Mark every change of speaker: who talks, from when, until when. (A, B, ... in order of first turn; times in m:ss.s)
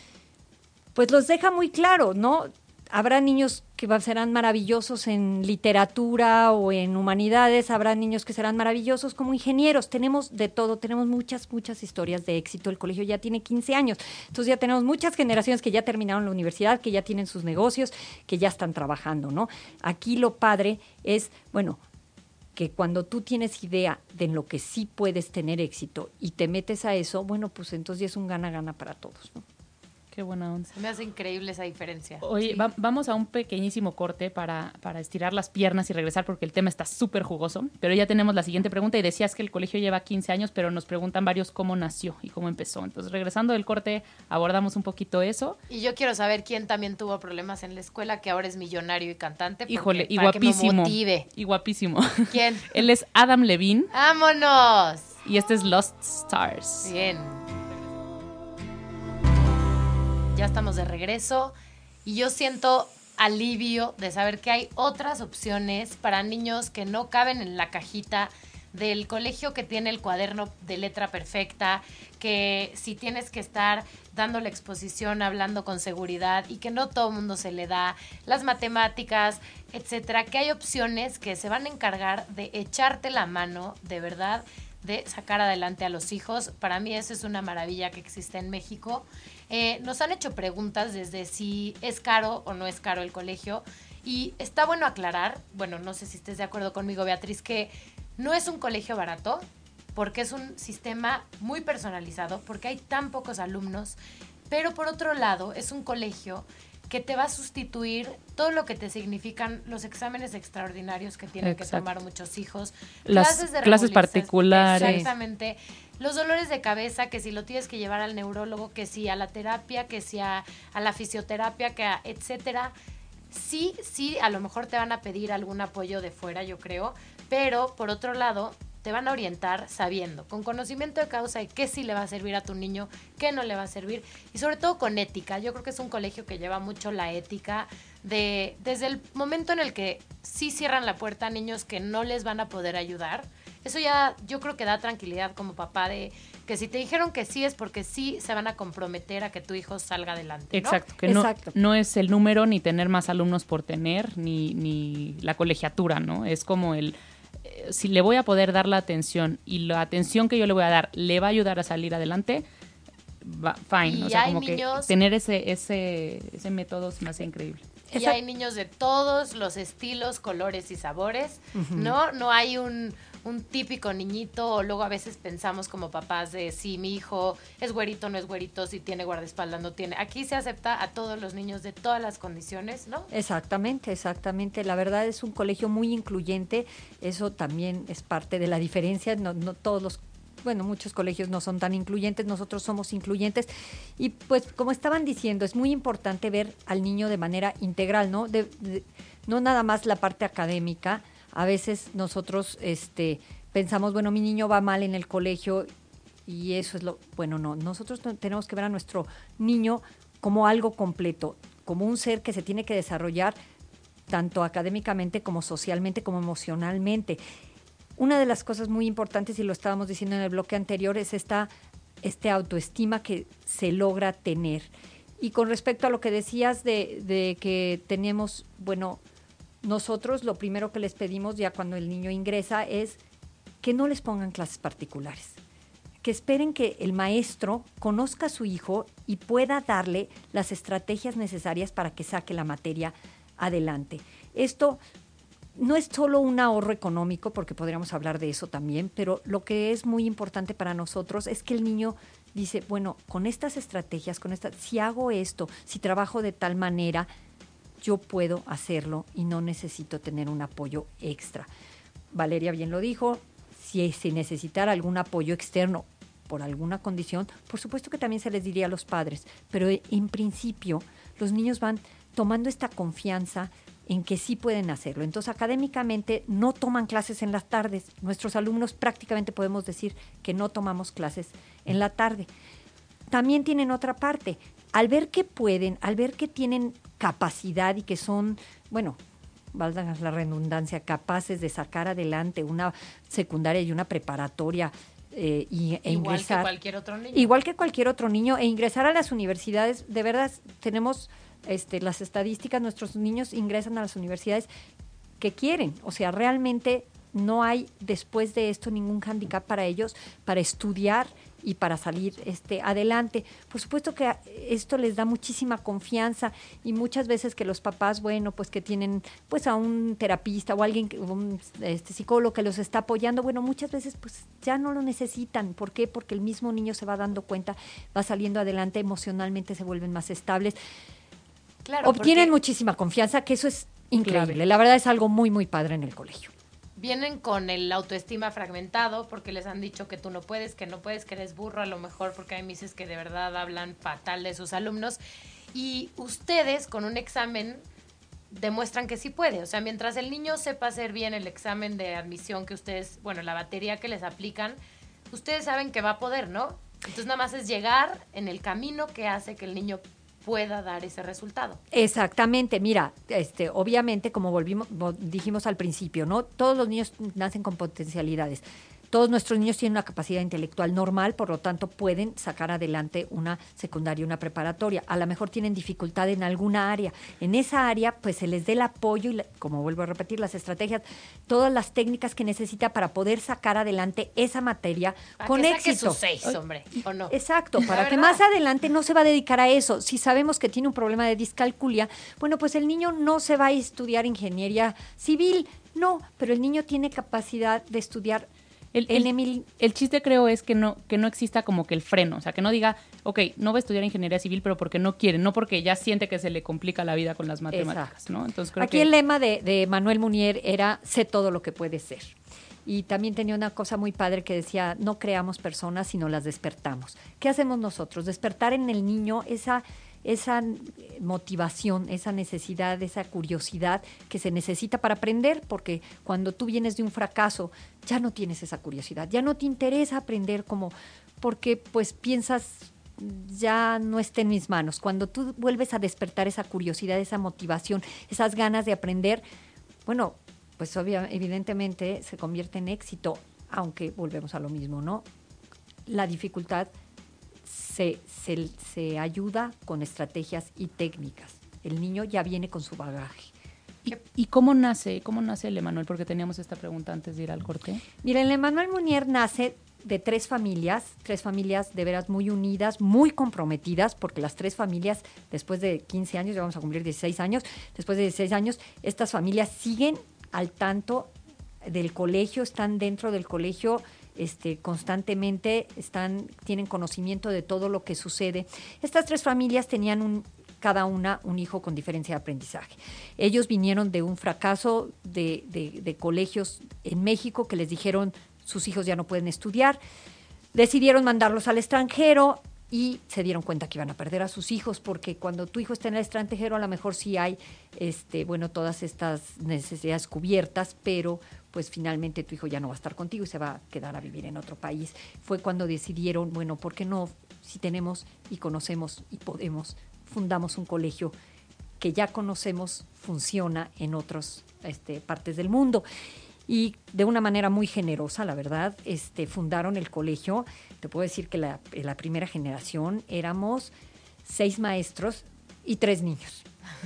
0:01.0-0:21.8 A
0:22.6-0:29.4 A
0:30.1-0:30.7 B
0:30.7-0:32.6 C
0:32.2-0:45.6 B
0:45.7-0:51.3 C
0:49.7-0:53.9 B
0:52.3-0:52.8 C
0:53.9-0:55.2 C
0:55.2-0:56.9 B
0:56.8-0:57.4 C
1:00.3-1:01.5 C
1:02.0-1:44.0 C
1:44.5-2:02.7 C
1:51.4-1:51.8 B
1:53.1-1:55.1 B
1:54.7-1:55.1 A
2:03.3-2:30.8 C
2:30.5-2:42.4 B
2:31.1-2:31.5 A
2:43.2-2:47.6 B
2:43.8-2:44.9 C
2:47.9-2:48.2 A
2:48.0-3:03.1 C
2:51.5-2:52.0 A
3:03.1-3:25.7 A
3:26.3-3:33.4 A
3:34.1-3:37.2 A
3:38.0-3:41.5 A
3:42.0-3:49.0 A
3:49.6-3:53.0 A
3:53.6-3:55.4 A
3:56.0-4:04.8 A
4:05.6-4:17.1 A
4:17.8-4:21.5 A
4:22.1-4:42.3 A
4:43.1-4:49.0 A
4:49.5-4:56.5 A
4:55.9-4:57.3 C
4:57.1-5:04.5 A
5:05.2-5:30.6 A
5:31.6-5:32.3 C
5:31.8-5:36.3 A
5:34.0-5:34.4 B
5:36.8-5:45.0 C
5:45.5-5:47.6 C
5:48.3-5:54.6 C
5:55.1-6:01.6 C
6:01.7-6:26.0 A
6:25.2-6:28.2 C
6:27.1-6:38.3 A
6:38.7-6:48.9 B
6:38.9-6:39.5 A
6:47.5-6:47.9 A
6:48.6-7:19.2 A
7:19.9-7:25.1 A
7:25.9-7:26.7 A
7:27.5-7:33.3 A
7:33.8-7:37.8 B
7:38.0-7:51.1 A
7:51.6-8:09.8 A
8:10.5-8:31.1 A
8:31.8-8:35.8 A
8:36.5-8:43.7 A
8:44.2-8:46.4 A